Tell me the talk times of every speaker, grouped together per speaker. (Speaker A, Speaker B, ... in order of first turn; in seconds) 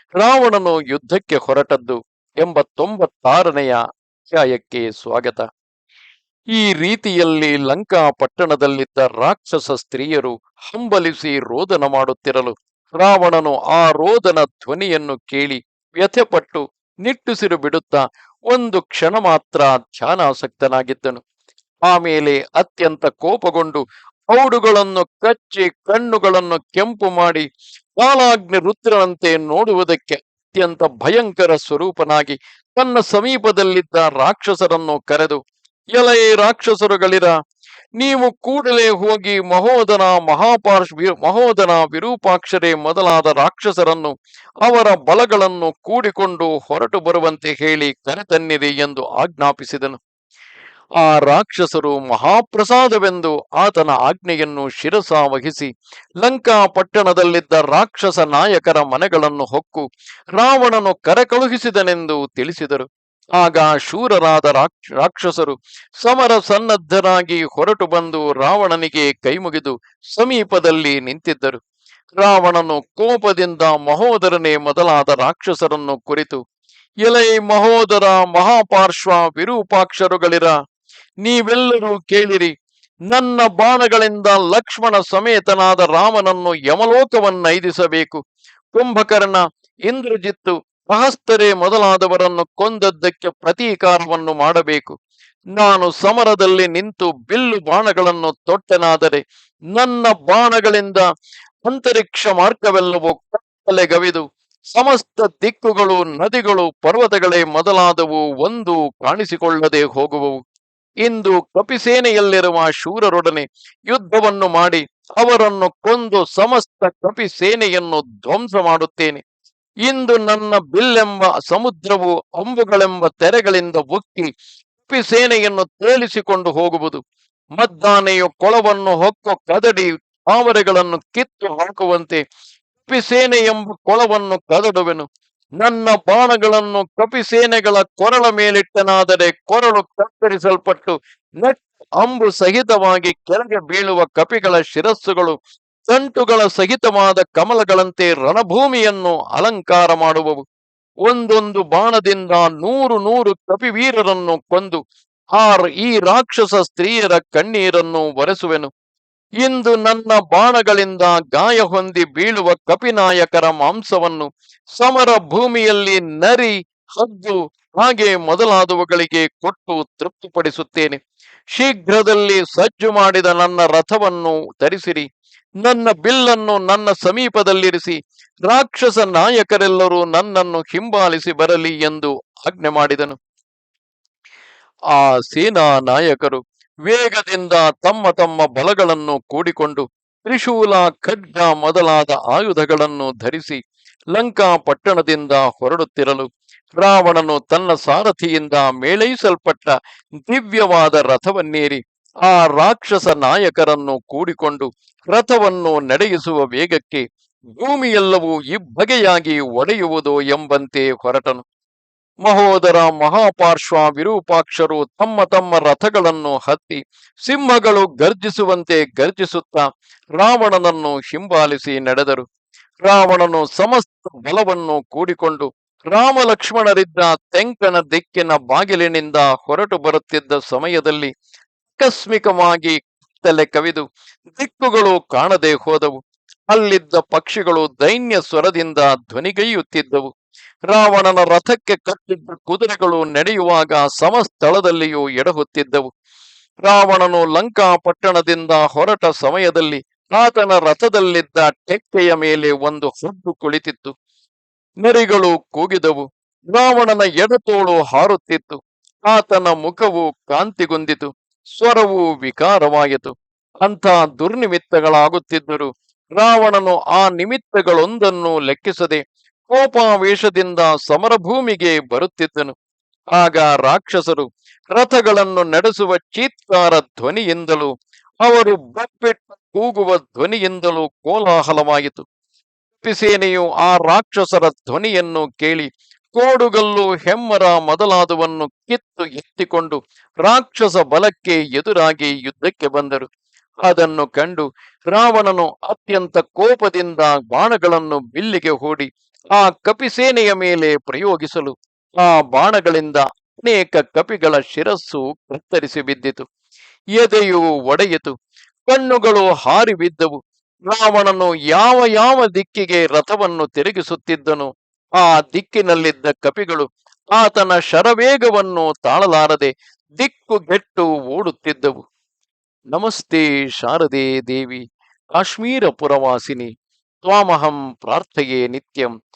Speaker A: 0.2-3.8, 4.3-5.5, 6.6-21.2, 21.9-27.5, 28.0-35.4, 36.0-37.3, 38.0-50.0, 51.0-55.7, 56.2-59.9, 60.4-62.9, 63.4-71.6, 72.2-76.4, 77.1-80.5, 81.2-82.5, 83.1-88.2, 88.7-95.0, 95.6-99.2, 99.7-101.1, 101.7-110.4, 111.0-119.2, 119.9-124.3, 124.9-127.0, 127.6-132.2, 132.8-135.1, 135.6-150.4, 151.1-154.8, 155.4-158.7, 159.4-171.0, 171.6-175.1, 175.6-178.0, 178.5-183.2, 184.9-193.6, 194.1-207.0, 207.6-211.4, 212.2-219.7, 220.2-222.2, 222.8-231.1, 231.8-236.0, 236.5-240.1, 240.7-245.9, 246.7-253.9, 254.8-272.5, 273.2-277.7, 278.2-282.1, 282.8-293.1, 293.7-306.3, 307.0-308.1, 308.7-310.2, 310.7-321.9, 322.7-324.6, 325.2-326.5, 327.1-328.9